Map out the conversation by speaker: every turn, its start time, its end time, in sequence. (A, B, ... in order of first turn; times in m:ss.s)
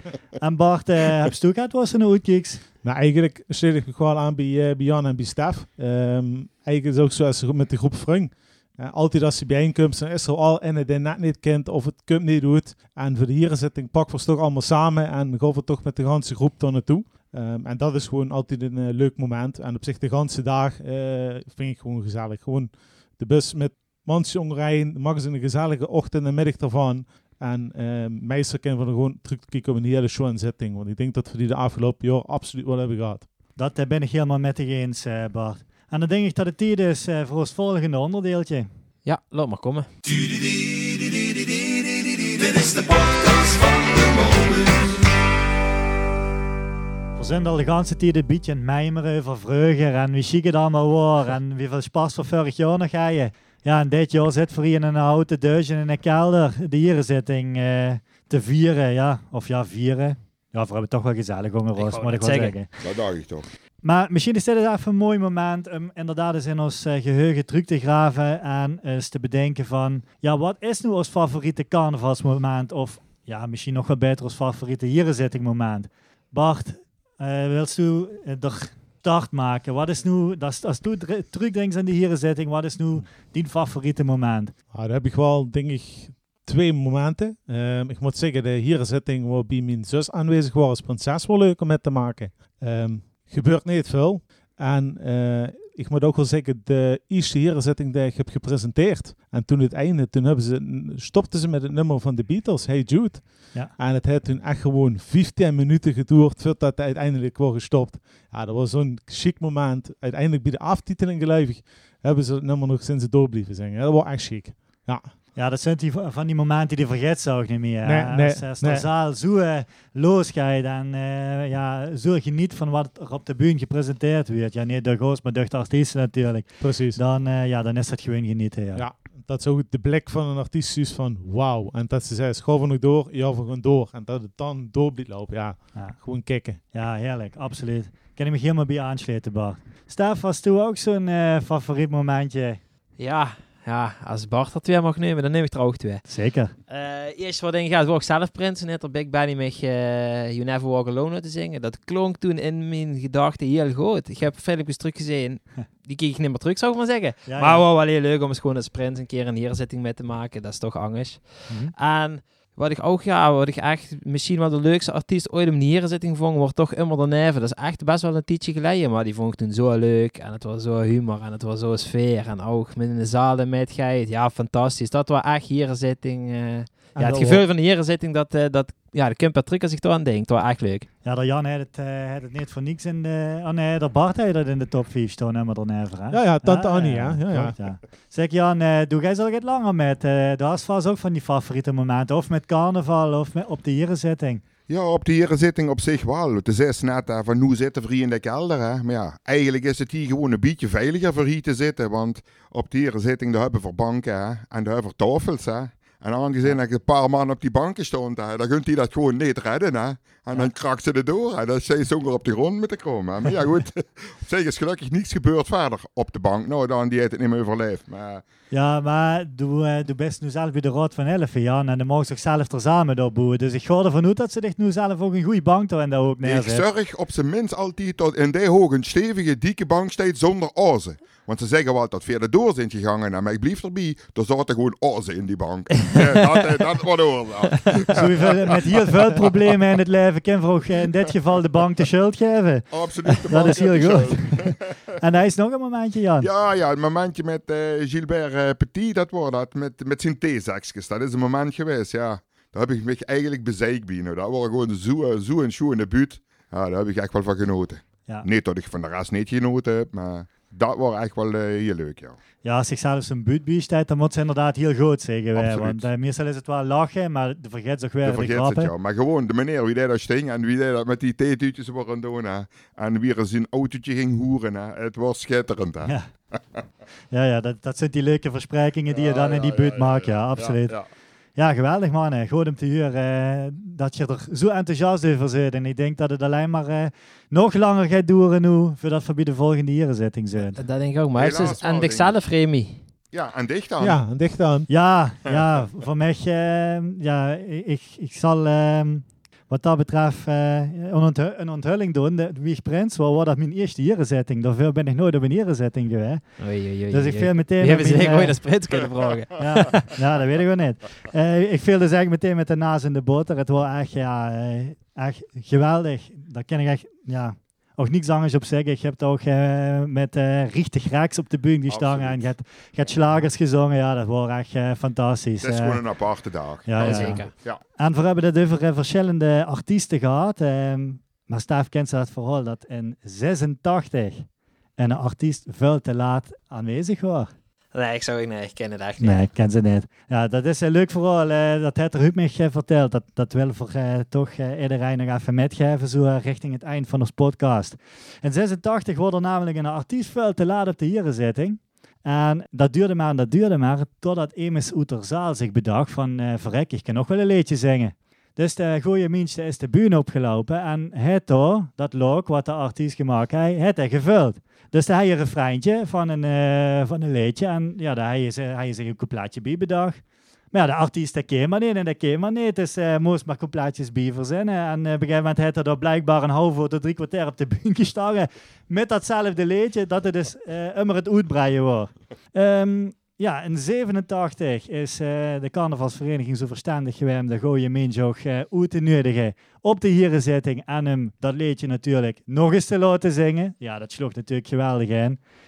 0:00.4-0:02.6 A
0:02.8-0:33.3 B
0:33.6-0:38.7 A
0:39.0-0:39.9 C
0:40.0-0:45.0 D
0:47.2-1:02.7 A
1:01.8-1:02.5 C
1:02.8-1:03.5 E
1:03.8-1:24.5 A
1:24.7-1:55.1 B
1:55.4-2:08.8 A
1:57.8-1:58.8 B
2:06.6-2:07.0 B
2:08.7-2:16.6 B
2:15.8-2:16.0 A
2:16.7-2:22.6 A
2:23.0-2:26.0 C
2:26.1-2:26.5 A
2:26.7-3:00.9 C
2:37.2-2:37.6 A
2:41.5-2:41.7 A
2:57.0-2:57.4 B
3:01.0-3:14.4 A
3:06.1-3:07.5 B
3:14.7-3:38.2 E
3:38.5-3:46.6 A
3:46.2-3:58.3 E
3:55.8-3:56.4 C
3:57.9-4:06.3 A
4:02.7-4:04.7 E
4:06.2-4:22.2 E
4:22.4-4:28.7 A
4:25.3-4:25.8 E
4:28.0-4:36.4 E
4:37.1-4:40.8 A
4:38.9-4:40.8 E
4:41.4-4:50.6 A
4:50.6-4:52.8 C
4:51.2-4:52.2 E
4:53.1-4:54.0 E
4:53.8-4:54.7 B
4:54.7-5:06.2 A
5:06.4-5:09.9 C
5:06.9-5:08.4 A
5:09.4-5:25.8 A
5:21.7-5:22.3 E
5:22.8-5:23.1 E
5:25.4-5:27.6 E
5:26.6-5:34.2 A
5:26.8-5:27.3 C
5:34.8-5:37.3 A
5:37.7-5:39.2 C
5:39.0-6:10.0 A
6:10.5-6:35.2 A